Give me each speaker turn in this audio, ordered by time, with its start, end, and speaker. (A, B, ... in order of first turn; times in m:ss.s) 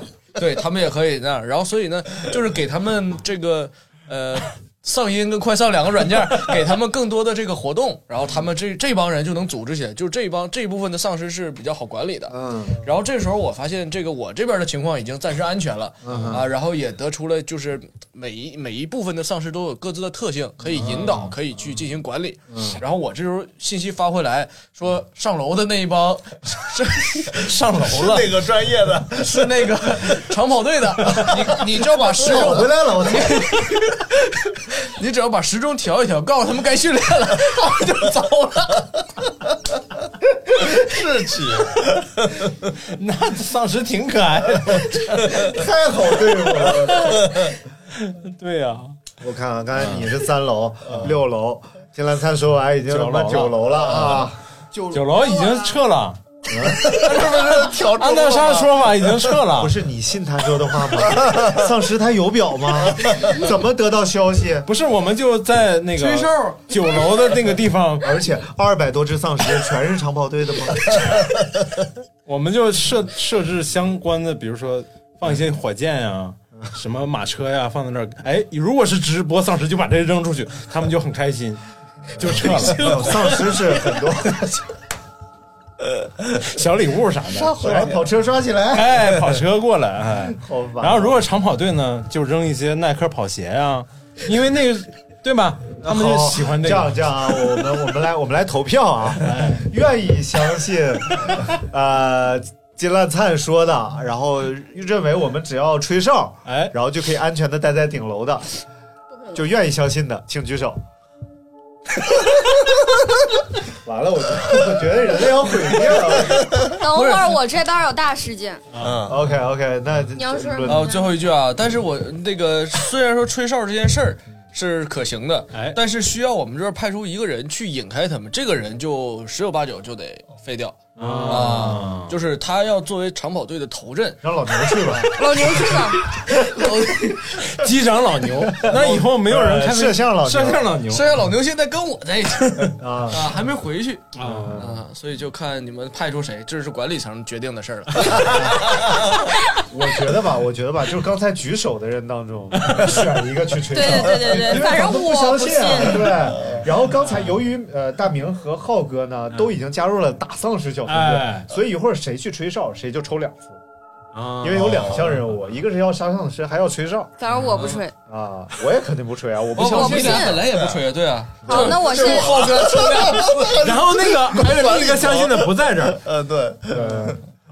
0:00.3-0:27.6 A
0:12.3-0:12.8 B
0:16.0-0:16.4 B
0:22.5-0:22.8 B
0:27.3-0:28.3 C
0:27.8-0:29.7 D
0:29.1-0:39.0 A
0:31.3-0:31.6 D
0:32.1-0:33.2 D
0:32.2-0:33.4 B
0:40.5-0:42.5 D
0:42.8-0:45.5 C
0:45.3-0:47.3 B
0:46.9-0:47.5 D
0:47.9-0:49.0 C
0:49.2-0:55.2 B
0:49.8-0:50.1 C
0:52.9-0:54.2 C
0:54.9-0:56.2 C
0:56.5-0:57.2 B
0:56.7-0:59.3 D
0:57.9-0:59.7 C
0:59.6-1:04.7 B
1:01.1-1:01.5 D
1:04.7-1:08.1 C
1:06.0-1:06.7 A
1:08.0-1:11.3 B
1:12.2-1:23.5 C
1:22.2-1:24.8 B
1:26.4-1:27.7 C
1:27.3-1:29.1 B
1:27.5-1:28.0 D
1:28.7-1:36.9 C
1:30.2-1:31.2 B
1:35.8-1:48.5 B
1:39.2-1:39.6 C
1:46.4-1:46.7 C
1:49.3-1:50.8 B
1:53.7-1:56.5 B
1:56.7-1:58.6 E
1:56.9-1:57.4 A
1:58.7-1:59.0 C
1:58.8-1:59.2 D
1:59.0-2:00.9 B
2:00.2-2:01.1 E
2:00.6-2:17.5 A
2:05.5-2:05.8 C
2:11.0-2:12.2 C
2:11.0-2:11.8 B
2:14.2-2:15.1 B
2:15.1-2:16.0 E
2:17.4-2:21.1 C
2:18.5-2:20.8 B
2:20.9-2:29.0 A
2:22.4-2:22.7 C
2:22.8-2:23.3 B
2:24.1-2:24.6 C
2:24.2-2:24.8 B
2:29.7-2:43.6 B
2:32.5-2:33.2 C
2:33.7-2:36.2 E
2:37.1-2:37.3 C
2:40.9-2:41.5 C
2:44.1-2:45.0 C
2:44.4-2:47.2 B
2:44.7-2:45.0 D
2:47.2-2:47.9 E
2:47.3-2:47.8 C
2:48.0-2:50.4 B
2:49.6-2:53.6 A
2:49.6-2:50.4 E
2:50.5-2:50.8 D
2:51.4-2:51.8 B
2:51.5-2:52.7 E
2:51.5-2:57.2 D
2:53.6-2:56.0 C
2:56.7-2:57.2 B